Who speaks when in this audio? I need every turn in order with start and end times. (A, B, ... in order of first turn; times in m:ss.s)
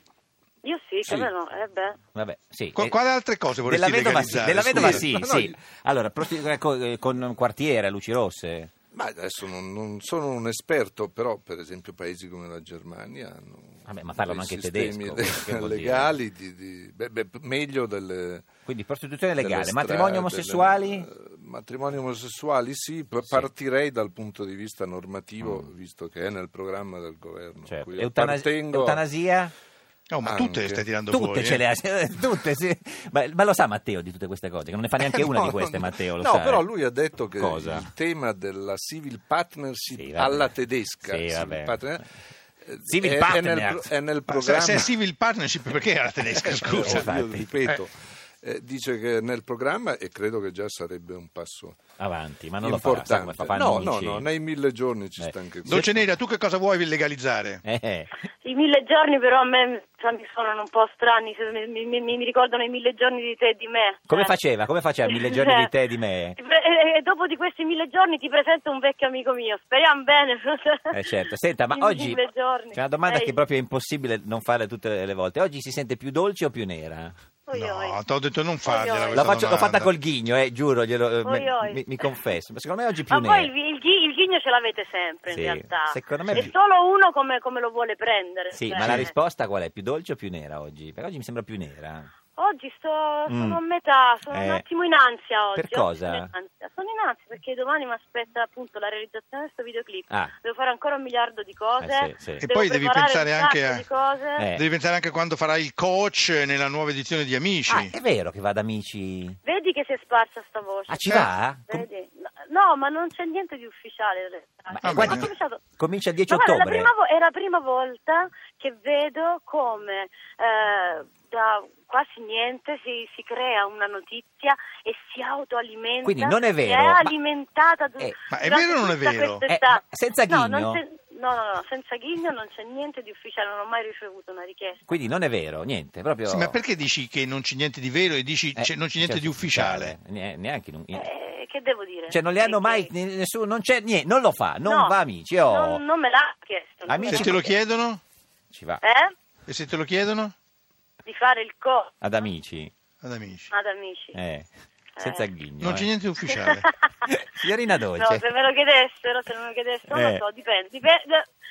0:00.6-0:02.0 A
0:02.1-0:03.0 B
0:02.8-0:05.1 C
0:03.6-0:08.7 B
0:04.7-0:05.6 D
0:08.9-0:18.5 D
0:13.8-0:16.1 B
0:18.6-0:21.1 B
0:19.4-0:29.0 D
0:25.4-0:25.7 B
0:27.7-0:29.5 B
0:30.1-0:31.6 C
0:30.2-0:30.8 D
0:31.1-0:36.6 B
0:35.0-0:42.1 D
0:37.4-0:37.9 B
0:39.9-0:42.0 B
0:42.6-0:44.9 D
0:42.9-0:43.9 B
0:44.3-0:47.1 C
0:46.3-0:51.9 D
0:46.5-0:47.5 B
0:52.0-0:54.3 B
0:52.6-0:55.9 D
0:55.2-0:56.0 B
0:55.6-0:57.6 C
0:57.6-0:58.1 B
0:58.4-1:04.3 A
1:04.1-1:06.4 B
1:05.0-1:05.7 A
1:06.4-1:10.9 A
1:10.9-1:17.1 B
1:11.7-1:13.4 A
1:17.5-1:18.0 A
1:17.5-1:19.9 C
1:18.6-1:19.3 A
1:19.1-1:23.5 B
1:21.2-1:22.0 A
1:23.1-1:29.1 A
1:25.3-1:26.5 B
1:26.3-1:26.5 C
1:28.5-1:32.1 B
1:32.4-1:44.4 A
1:33.3-1:33.6 B
1:34.3-1:34.6 B
1:35.5-1:36.3 B
1:41.8-1:42.4 B
1:42.4-1:43.8 C
1:44.4-1:44.6 B
1:44.5-1:47.9 C
1:47.7-1:49.4 B
1:49.4-1:55.6 A
1:50.9-1:51.8 B
1:54.7-1:56.9 B
1:54.8-1:55.3 C
1:56.3-2:14.8 A
2:06.0-2:07.1 B
2:08.3-2:09.4 C
2:09.5-2:10.8 B
2:14.9-2:16.6 B
2:16.2-2:19.9 C
2:18.6-2:21.1 B
2:20.9-2:22.9 A
2:22.1-2:25.8 B
2:24.6-2:27.4 A
2:26.9-2:27.5 B
2:27.0-2:28.0 C
2:28.5-2:28.8 B
2:28.8-2:29.1 A
2:29.5-2:30.3 C
2:31.0-2:31.9 A
2:32.0-2:32.7 B
2:33.0-2:33.5 C
2:33.5-2:34.2 A
2:34.1-2:34.5 B
2:35.0-2:35.2 A
2:35.0-2:35.9 B
2:35.6-2:36.7 C
2:36.3-2:36.8 A
2:37.0-2:38.3 B
2:37.9-2:41.2 A
2:39.9-2:40.2 B